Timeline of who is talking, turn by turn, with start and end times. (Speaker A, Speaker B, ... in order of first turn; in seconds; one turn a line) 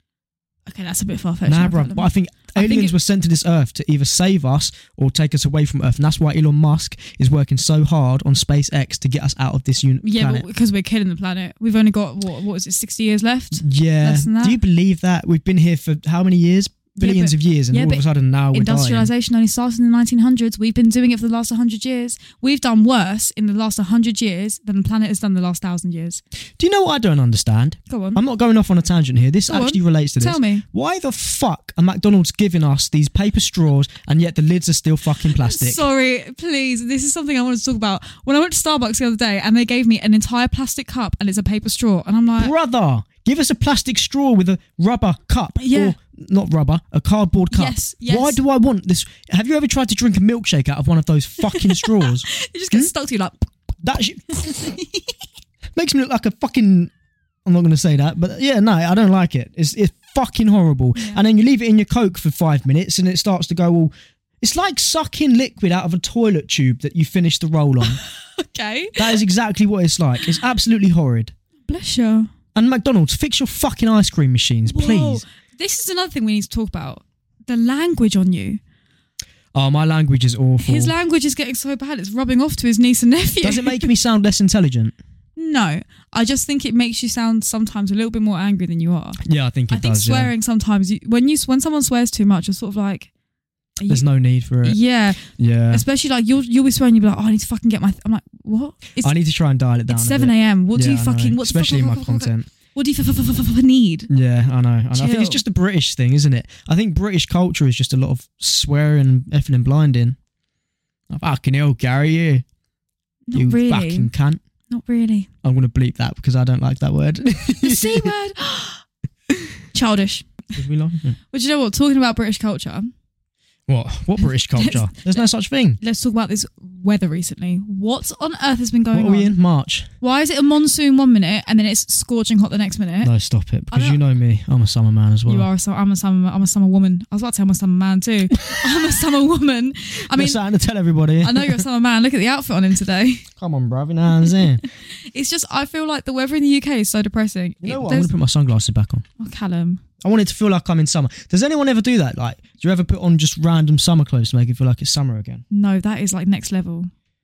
Speaker A: 0.7-2.9
Speaker B: 1.5-10.4
Speaker A: 10.0-14.6
Speaker B: 13.5-19.1
Speaker A: 16.9-26.2
Speaker B: 26.6-35.8
Speaker A: 27.9-28.2
Speaker A: 29.5-30.6
Speaker A: 35.3-42.5
Speaker B: 42.4-52.9
Speaker A: 45.6-46.0
Speaker A: 47.5-48.4
Speaker A: 51.5-53.5
Speaker B: 53.8-54.7
Speaker A: 54.3-55.2
Speaker B: 55.8-56.9
Speaker B: 57.4-68.0
Speaker A: 61.0-61.2
Speaker A: 68.0-69.2
Speaker B: 69.0-71.3
Speaker A: 71.7-72.3
Speaker B: 72.5-75.2
Speaker A: 74.7-78.6
Speaker B: 79.5-80.9
Speaker A: 80.6-83.9
Speaker B: 83.4-84.9
Speaker A: 85.4-89.2
Speaker B: 89.2-90.3
Speaker A: 89.7-93.1
Speaker A: 93.8-94.0
Speaker B: 93.9-95.8
Speaker A: 94.6-99.1
Speaker B: 99.0-102.5
Speaker A: 99.9-104.1
Speaker B: 104.1-110.2
Speaker A: 104.9-105.4
Speaker B: 111.1-112.4
Speaker A: 113.3-114.1
Speaker B: 113.3-114.4
Speaker A: 114.7-115.3
Speaker B: 115.4-118.1
Speaker A: 117.6-118.8
Speaker A: 119.7-120.3
Speaker B: 120.5-121.2
Speaker A: 121.3-122.9
Speaker B: 123.7-125.8
Speaker A: 124.2-125.2
Speaker A: 125.8-129.3
Speaker B: 128.9-129.9
Speaker A: 130.0-133.1
Speaker B: 133.0-135.5
Speaker A: 133.7-134.0
Speaker A: 135.2-140.4
Speaker B: 140.1-141.6
Speaker A: 141.2-143.2
Speaker B: 143.4-144.6
Speaker A: 144.2-148.1
Speaker B: 147.6-149.0
Speaker A: 149.2-149.8
Speaker B: 150.0-155.4
Speaker A: 155.5-156.9